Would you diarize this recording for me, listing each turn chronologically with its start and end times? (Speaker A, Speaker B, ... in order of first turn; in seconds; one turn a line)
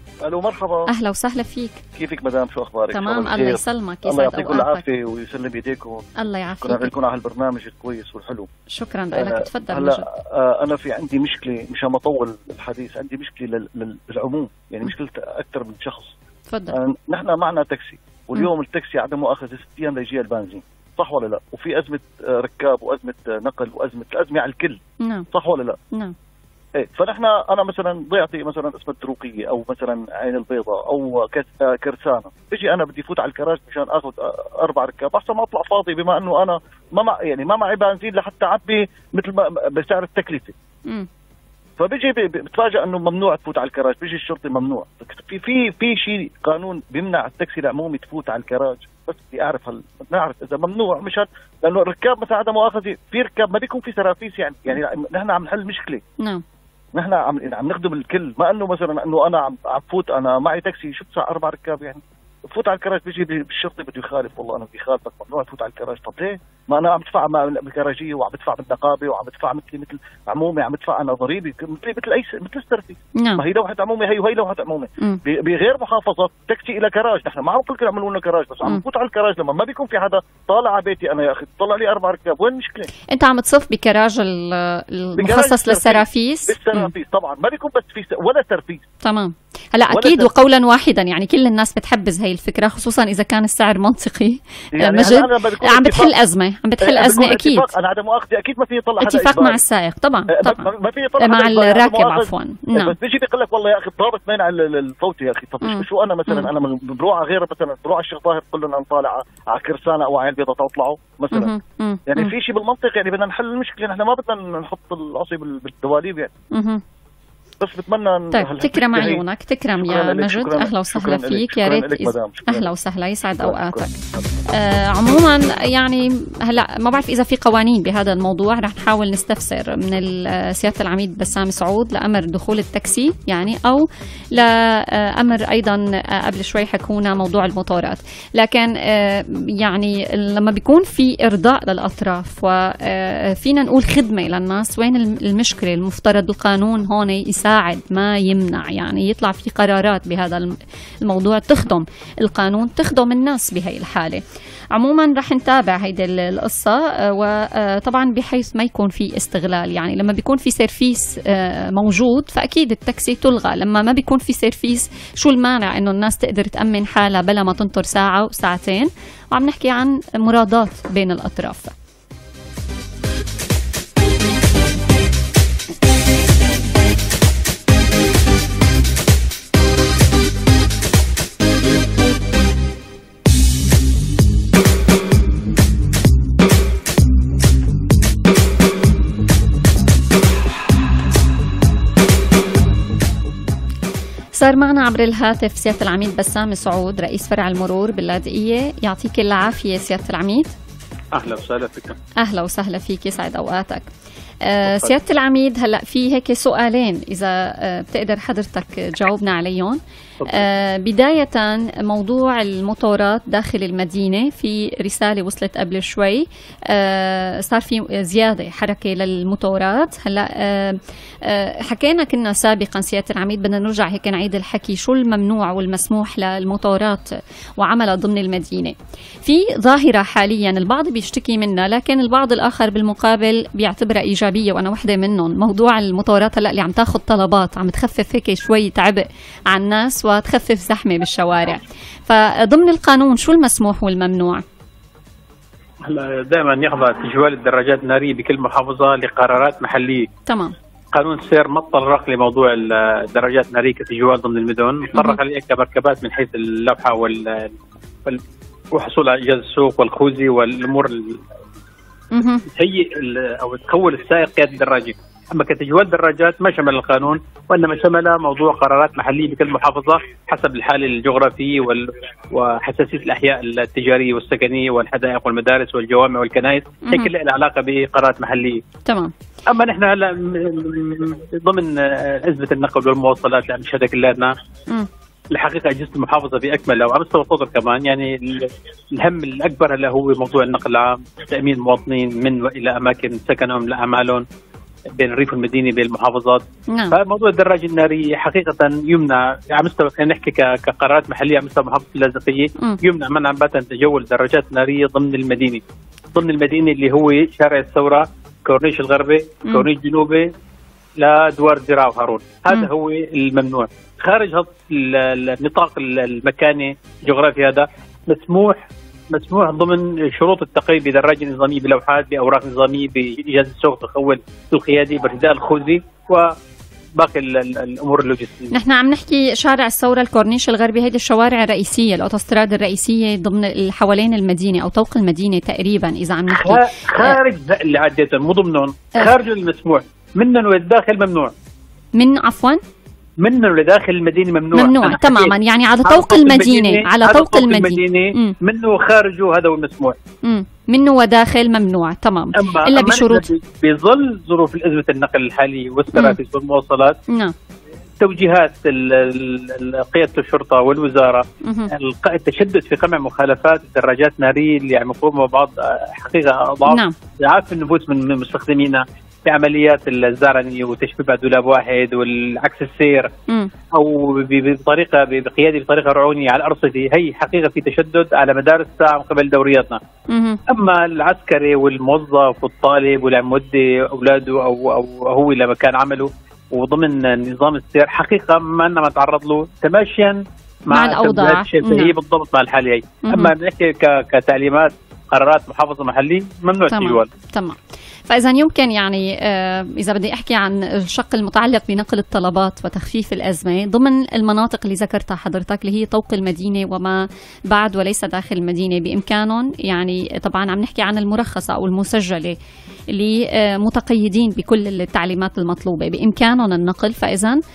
Speaker A: 0.2-0.9
Speaker B: 0.9-1.8
Speaker A: 1.9-6.1
Speaker B: 2.9-4.8
Speaker B: 6.2-6.9
Speaker A: 6.6-8.5
Speaker B: 8.7-10.0
Speaker A: 9.1-16.1
Speaker B: 16.5-16.8
Speaker A: 16.7-24.8
Speaker B: 25.0-25.3
Speaker A: 25.3-25.8
Speaker A: 26.8-40.5
Speaker A: 41.8-56.0
Speaker A: 56.9-82.9
Speaker B: 73.2-73.4
Speaker B: 83.1-86.9
Speaker A: 85.2-88.9
Speaker B: 89.0-97.7
Speaker A: 89.9-90.3
Speaker A: 94.7-96.1
Speaker A: 96.8-99.6
Speaker B: 99.0-102.9
Speaker A: 100.3-111.5
Speaker B: 105.6-106.5
Speaker B: 111.3-112.3
Speaker A: 112.1-116.3
Speaker B: 116.5-116.8
Speaker A: 117.6-119.2
Speaker B: 118.3-123.9
Speaker A: 119.8-122.7
Speaker A: 123.4-124.2
Speaker B: 124.5-154.2
Speaker B: 154.7-171.7
Speaker B: 194.3-200.5
Speaker C: 201.1-201.9
Speaker B: 202.2-203.9
Speaker B: 204.4-227.0
Speaker C: 204.6-204.9
Speaker C: 210.2-210.4
Speaker B: 227.6-244.4
Speaker C: 245.8-250.1
Speaker B: 250.2-250.5
Speaker C: 250.9-261.2
Speaker B: 254.9-255.2
Speaker B: 262.1-262.4
Speaker C: 262.4-278.6
Speaker B: 276.8-277.1
Speaker B: 278.8-279.1
Speaker C: 279.5-284.3
Speaker C: 285.3-294.2
Speaker C: 294.9-305.6
Speaker B: 296.7-296.9
Speaker C: 306.1-310.3
Speaker C: 311.0-326.4
Speaker C: 326.9-328.5
Speaker B: 328.5-337.2
Speaker C: 336.3-341.3
Speaker B: 341.9-342.6
Speaker C: 343.2-350.0
Speaker B: 344.5-348.3
Speaker B: 350.2-353.3
Speaker C: 352.3-357.0
Speaker B: 355.9-356.2
Speaker B: 357.1-357.3
Speaker C: 358.0-373.1
Speaker B: 361.4-361.7
Speaker B: 366.7-366.9
Speaker C: 373.7-379.8
Speaker B: 380.1-380.4
Speaker C: 380.5-397.1
Speaker B: 390.7-391.9
Speaker B: 393.0-393.3
Speaker B: 396.7-397.6
Speaker B: 398.1-412.4
Speaker B: 412.9-417.4